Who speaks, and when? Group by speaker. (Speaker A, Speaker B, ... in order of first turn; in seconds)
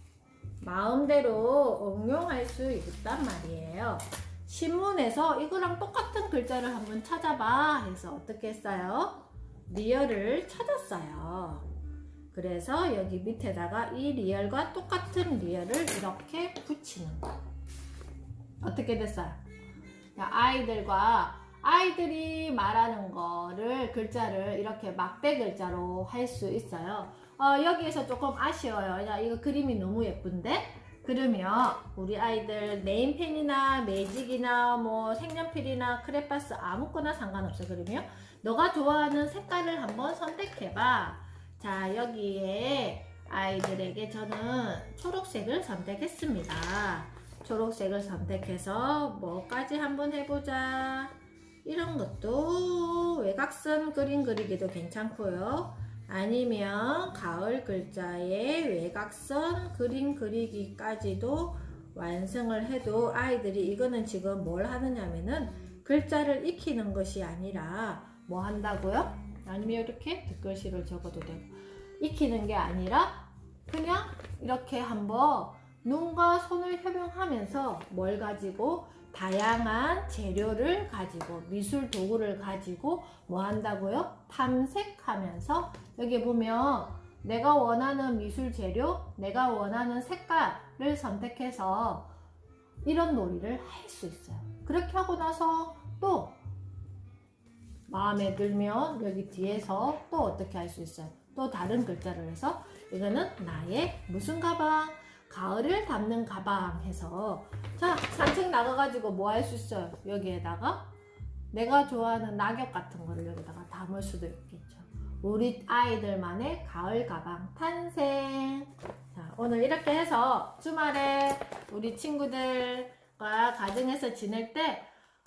Speaker A: 0.6-11.7, 12.3-17.4, 18.6-19.4, 20.2-92.1, 92.8-96.4, 97.9-110.9, 111.5-124.9